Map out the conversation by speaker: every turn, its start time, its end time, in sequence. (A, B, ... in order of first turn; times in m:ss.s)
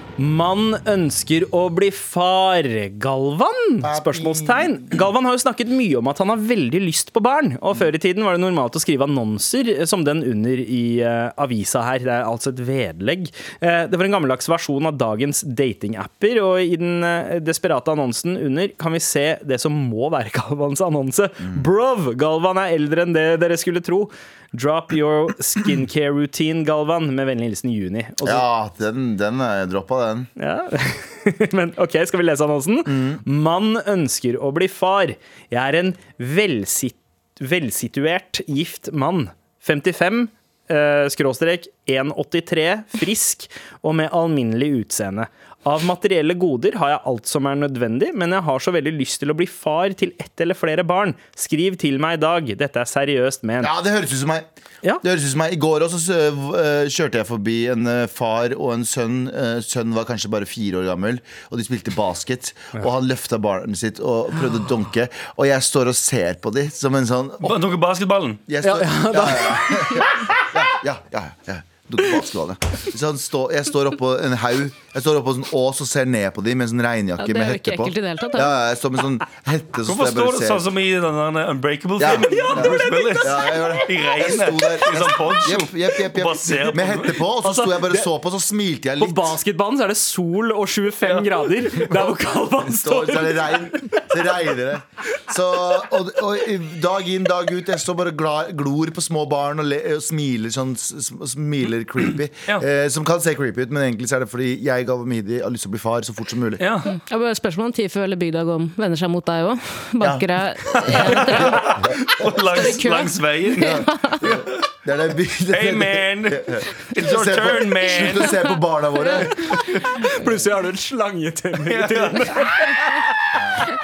0:00.2-0:28.5 A
0:03.8-0:04.9 B
0:28.2-0:30.3 B
0:30.4-0:53.7 A
0:32.9-0:33.2 B
0:53.6-0:54.5 B
0:55.0-1:07.6 B
1:04.4-1:04.6 A
1:07.4-1:08.4 C
1:08.5-1:20.7 B
1:08.6-1:10.5 A
1:17.2-1:18.6 D
1:19.8-1:27.2 C
1:22.0-1:29.4 B
1:27.4-1:28.1 A
1:29.0-1:34.0 A
1:31.1-1:32.0 C
1:32.6-1:46.6 B
1:46.6-1:46.9 C
1:46.9-1:51.9 D
1:50.0-1:52.1 B
1:50.7-1:54.4 C
1:52.5-1:54.3 D
1:53.6-1:59.7 B
1:55.5-1:58.5 C
1:57.8-1:58.5 D
1:59.4-1:59.9 C
1:59.9-2:03.0 A
2:01.6-2:02.8 C